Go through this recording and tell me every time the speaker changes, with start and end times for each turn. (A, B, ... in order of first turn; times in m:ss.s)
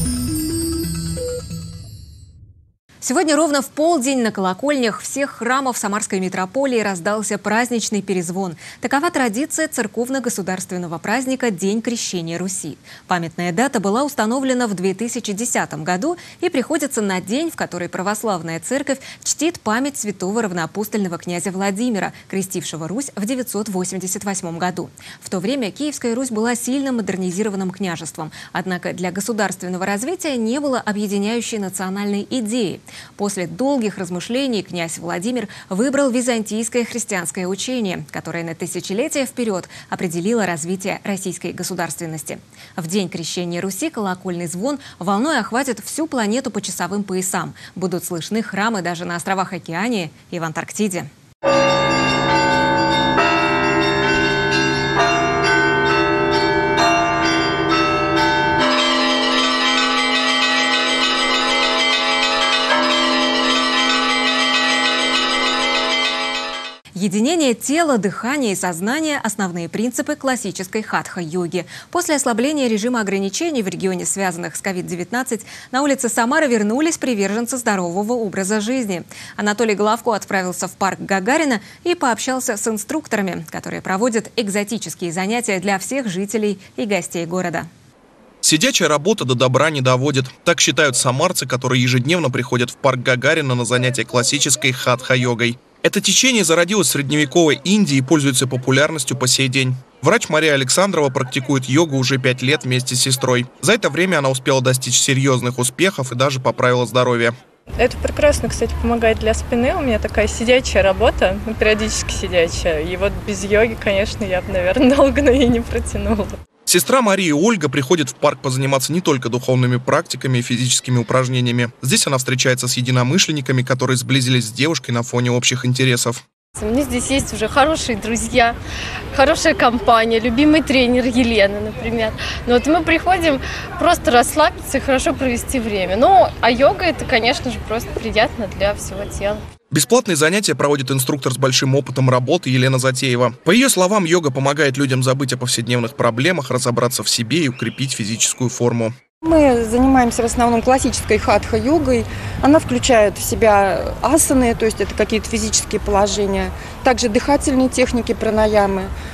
0:03.0-0:51.1 A
1:07.0-1:27.7 A
1:28.4-1:47.4 B
1:47.8-1:56.4 C
1:56.7-2:06.2 B
2:06.6-2:08.6 D
2:09.1-2:19.4 D
2:19.7-2:28.9 B
2:29.2-2:38.9 E